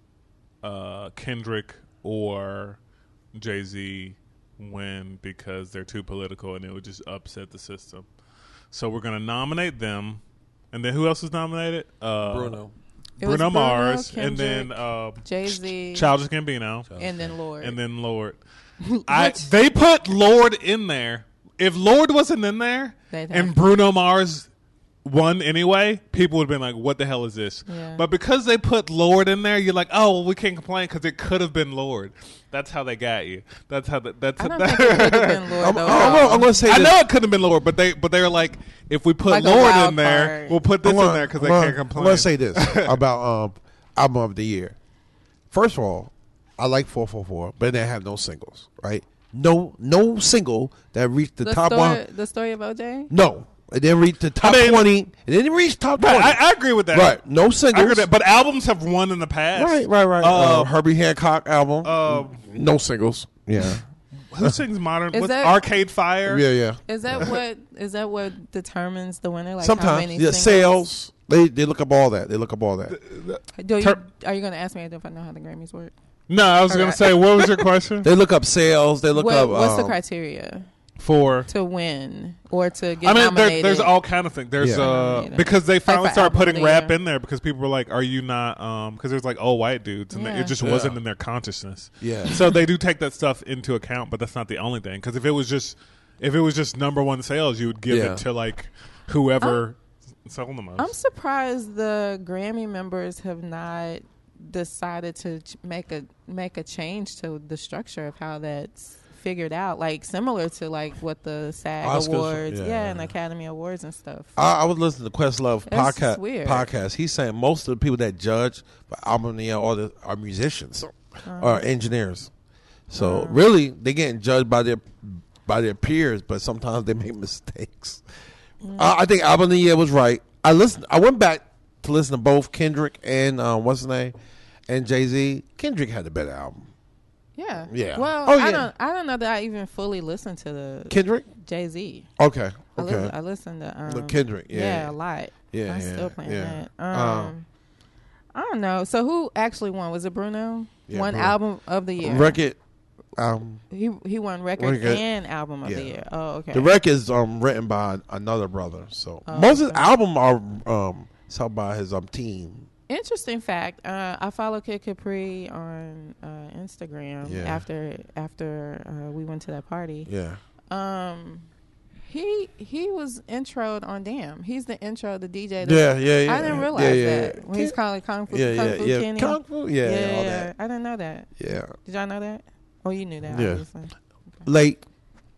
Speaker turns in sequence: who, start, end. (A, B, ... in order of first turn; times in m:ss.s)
0:00.6-0:02.8 A
0:03.3-0:08.0 A
0:08.7-0:10.2 A
0:10.7-0:12.6 A
0:12.2-0:12.7 B
0:13.2-0:16.1 C
0:13.2-0:16.9 A
0:16.9-0:17.3 B
0:17.0-0:17.8 C
0:17.6-0:18.4 A
0:18.8-0:19.5 C
0:19.1-0:24.5 A
0:23.1-0:23.6 C
0:25.0-0:43.0 A
0:27.7-0:28.0 C
0:34.4-0:36.6 C
0:35.6-0:37.0 B
0:39.3-0:40.6 C
0:40.8-0:44.8 B
0:45.5-0:52.0 B
0:51.4-0:53.1 C
0:53.1-0:58.1 B
0:54.4-0:54.9 A
0:56.0-1:00.7 A
0:59.6-1:03.8 B
1:01.8-1:02.4 A
1:04.3-1:06.5 A
1:05.1-1:05.6 C
1:06.3-1:07.2 B
1:06.9-1:10.9 C
1:09.6-1:13.0 B
1:12.9-1:14.0 A
1:13.6-1:15.9 C
1:16.3-1:18.1 A
1:16.7-1:17.6 C
1:18.0-1:20.0 B
1:19.1-1:20.7 C
1:21.0-1:21.5 A
1:21.5-1:23.9 C
1:23.0-1:40.9 A
1:24.6-1:24.9 B
1:24.8-1:26.9 C
1:30.1-1:30.5 C
1:30.6-1:31.0 B
1:32.0-1:32.4 B
1:37.9-1:38.2 B
1:40.8-1:54.3 C
1:51.8-1:53.1 B
1:54.4-2:02.3 B
1:55.7-1:56.7 C
2:01.2-2:01.6 C
2:02.9-2:08.0 B
2:03.0-2:03.4 C
2:08.6-2:08.9 C
2:08.8-2:14.1 B
2:14.7-2:16.7 B
2:17.4-2:22.1 C
2:17.7-2:18.7 B
2:20.9-2:21.2 B
2:22.2-2:23.1 B
2:22.8-2:27.5 C
2:23.9-2:24.9 B
2:25.5-2:27.3 B
2:28.3-2:32.4 C
2:30.9-2:31.4 B
2:32.0-2:32.6 B
2:33.2-2:33.6 B
2:33.7-2:36.8 C
2:34.6-2:35.0 B
2:35.6-2:35.9 B
2:36.5-2:42.7 B
2:39.3-2:39.9 C
2:42.9-2:50.1 C
2:47.2-2:47.6 B
2:50.1-2:50.4 B
2:50.7-2:51.5 C
2:52.1-3:01.3 C
2:55.6-2:57.8 B
2:58.3-3:00.5 B
3:01.4-3:01.7 B
3:01.8-3:03.9 C
3:03.3-3:03.6 B
3:04.4-3:04.8 B